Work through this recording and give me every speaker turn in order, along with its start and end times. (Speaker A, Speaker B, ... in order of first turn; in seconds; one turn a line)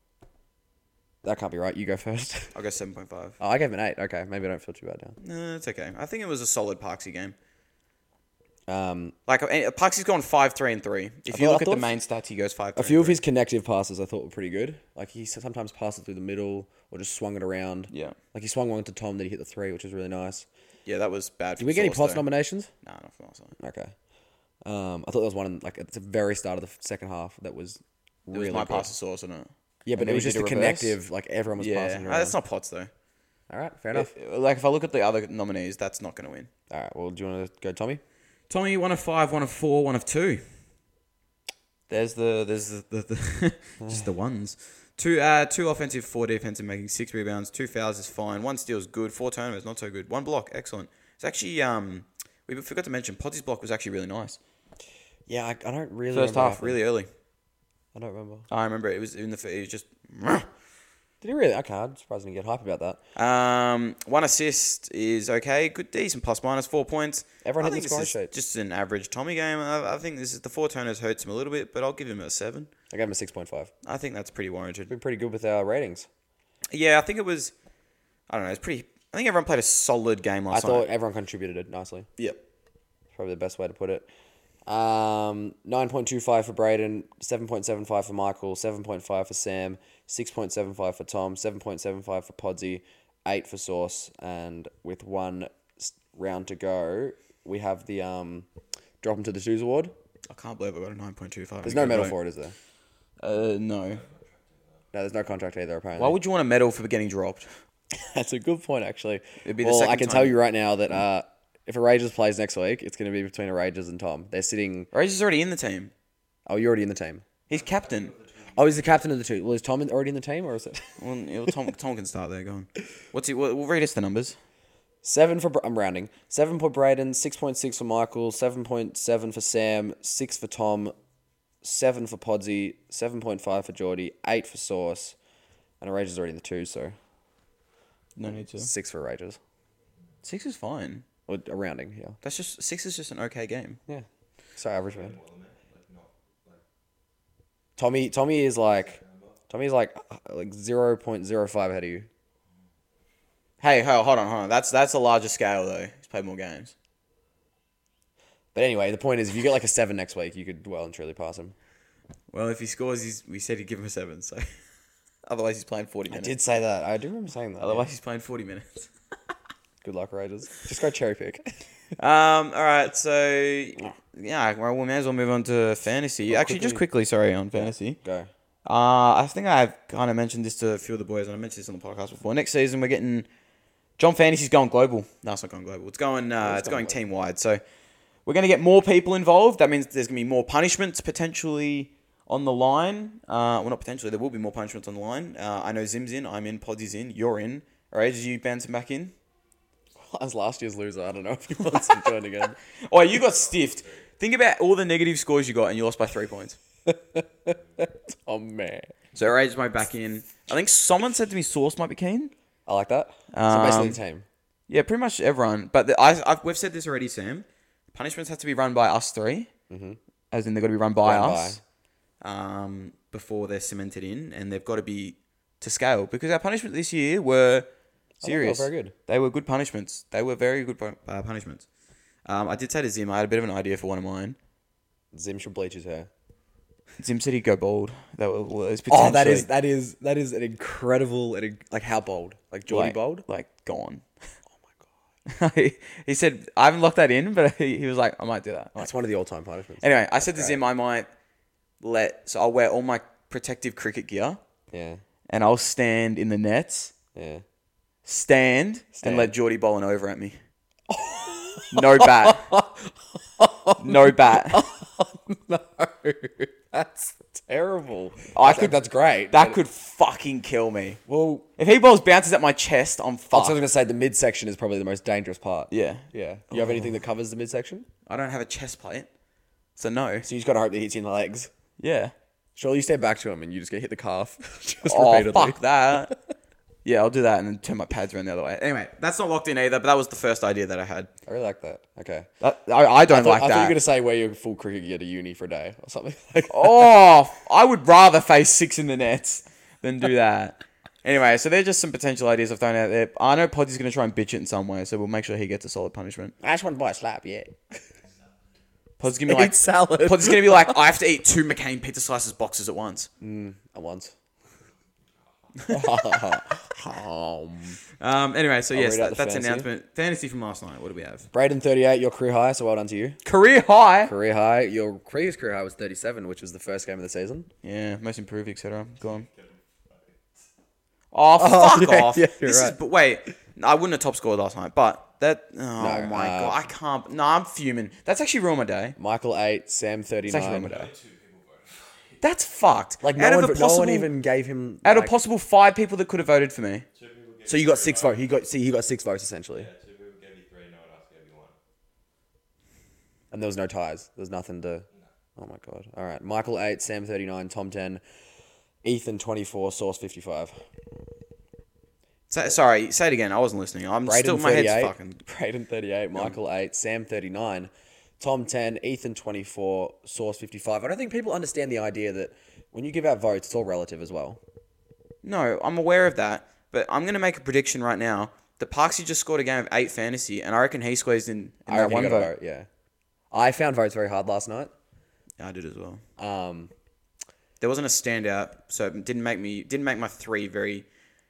Speaker A: 1.2-2.5
Speaker B: 2.5-3.4
Speaker A: 3.4-5.2
Speaker B: 5.2-7.3
Speaker A: 8.7-9.1
Speaker B: 9.3-13.2
Speaker A: 11.3-11.9
Speaker A: 12.8-20.4
Speaker B: 17.9-18.2
Speaker B: 20.9-22.3
Speaker A: 21.6-22.7
Speaker B: 22.8-23.5
Speaker A: 23.6-23.9
Speaker A: 24.6-28.9
Speaker B: 28.3-31.0
Speaker A: 29.9-32.4
Speaker B: 31.6-32.9
Speaker A: 33.5-34.1
Speaker B: 33.9-36.5
Speaker A: 36.7-38.0
Speaker B: 38.5-40.4
Speaker B: 41.9-54.4
Speaker A: 55.3-56.8
Speaker B: 56.1-57.1
Speaker A: 57.9-58.5
Speaker B: 58.5-60.5
Speaker A: 61.2-63.0
Speaker B: 63.1-72.7
Speaker A: 67.4-68.3
Speaker A: 72.9-73.7
Speaker B: 73.8-74.9
Speaker A: 74.9-76.1
Speaker B: 76.7-77.5
Speaker B: 78.3-80.8
Speaker A: 80.5-82.1
Speaker A: 83.1-84.1
Speaker A: 84.7-98.5
Speaker A: 99.0-99.9
Speaker B: 100.3-102.1
Speaker A: 101.6-102.5
Speaker B: 103.2-104.0
Speaker C: 103.9-104.5
Speaker A: 104.9-106.2
Speaker B: 106.0-107.5
Speaker A: 107.9-114.9
Speaker B: 109.4-110.4
Speaker B: 114.9-115.9
Speaker A: 116.5-117.2
Speaker B: 117.5-118.1
Speaker C: 117.5-118.9
Speaker A: 118.5-121.0
Speaker B: 121.0-124.4
Speaker A: 125.0-130.9
Speaker A: 131.6-135.2
Speaker A: 135.8-136.9
Speaker B: 138.2-138.7
Speaker A: 138.5-139.4
Speaker B: 140.2-141.0
Speaker A: 141.3-142.2
Speaker B: 142.2-143.8
Speaker A: 144.6-145.2
Speaker C: 144.9-146.6
Speaker A: 147.8-152.1
Speaker C: 148.9-149.3
Speaker B: 153.6-156.7
Speaker A: 158.5-161.5
Speaker B: 162.3-164.5
Speaker B: 165.2-166.3
Speaker A: 166.1-167.9
Speaker B: 167.6-168.9
Speaker A: 169.8-171.5
Speaker B: 172.0-178.0
Speaker A: 176.3-176.8
Speaker A: 177.5-178.3
Speaker B: 178.6-183.3
Speaker B: 184.0-187.6
Speaker A: 186.4-187.0
Speaker B: 188.2-199.1
Speaker A: 200.0-202.6
Speaker B: 202.8-206.6
Speaker C: 203.6-204.0
Speaker A: 206.8-208.9
Speaker B: 209.1-212.3
Speaker A: 212.7-214.2
Speaker B: 213.3-214.0
Speaker B: 214.7-219.5
Speaker A: 219.7-220.0
Speaker B: 220.3-221.6
Speaker A: 221.0-221.6
Speaker B: 222.2-227.7
Speaker A: 228.2-228.9
Speaker B: 228.2-231.7
Speaker B: 232.2-234.4
Speaker A: 235.1-236.1
Speaker B: 237.0-239.5
Speaker A: 238.9-243.2
Speaker B: 242.7-244.0
Speaker B: 245.2-248.9
Speaker A: 248.8-250.6
Speaker B: 249.8-251.1
Speaker B: 251.8-254.4
Speaker A: 254.7-255.0
Speaker B: 255.3-256.9
Speaker A: 257.1-257.4
Speaker B: 258.0-260.4
Speaker A: 258.9-259.3
Speaker A: 260.9-269.6
Speaker B: 261.7-262.5
Speaker B: 263.8-264.6
Speaker B: 268.3-268.8
Speaker B: 269.3-271.0
Speaker A: 271.1-271.4
Speaker B: 271.6-273.6
Speaker A: 273.3-277.9
Speaker B: 275.7-276.9
Speaker B: 278.1-279.1
Speaker B: 279.8-280.2
Speaker A: 280.2-281.5
Speaker B: 281.8-282.1
Speaker A: 282.6-286.1
Speaker B: 284.9-286.1
Speaker B: 286.8-291.1
Speaker A: 291.3-292.3
Speaker B: 292.4-293.8
Speaker A: 293.1-296.8
Speaker B: 296.5-306.3
Speaker A: 306.4-307.6
Speaker B: 309.0-313.1
Speaker A: 309.3-310.8
Speaker A: 313.2-314.1
Speaker A: 315.7-317.8
Speaker B: 318.0-321.3
Speaker A: 318.7-319.7
Speaker A: 321.3-323.2
Speaker B: 323.2-324.1
Speaker A: 324.0-327.5
Speaker B: 327.6-329.3
Speaker C: 329.0-330.2
Speaker B: 331.1-338.9
Speaker A: 331.4-332.8
Speaker A: 335.8-336.6
Speaker A: 339.0-340.8
Speaker B: 340.3-340.9
Speaker C: 340.6-342.2
Speaker B: 342.2-344.1
Speaker A: 343.0-345.1
Speaker B: 344.8-346.8
Speaker C: 346.9-348.4
Speaker A: 347.5-349.7
Speaker C: 349.5-351.5
Speaker A: 353.3-354.9
Speaker A: 355.4-358.0
Speaker A: 358.8-360.6
Speaker B: 362.3-365.2
Speaker A: 364.0-374.4
Speaker B: 375.2-382.3
Speaker A: 381.7-382.7
Speaker A: 383.3-384.7
Speaker B: 385.4-386.0
Speaker A: 386.2-386.7
Speaker B: 387.6-390.9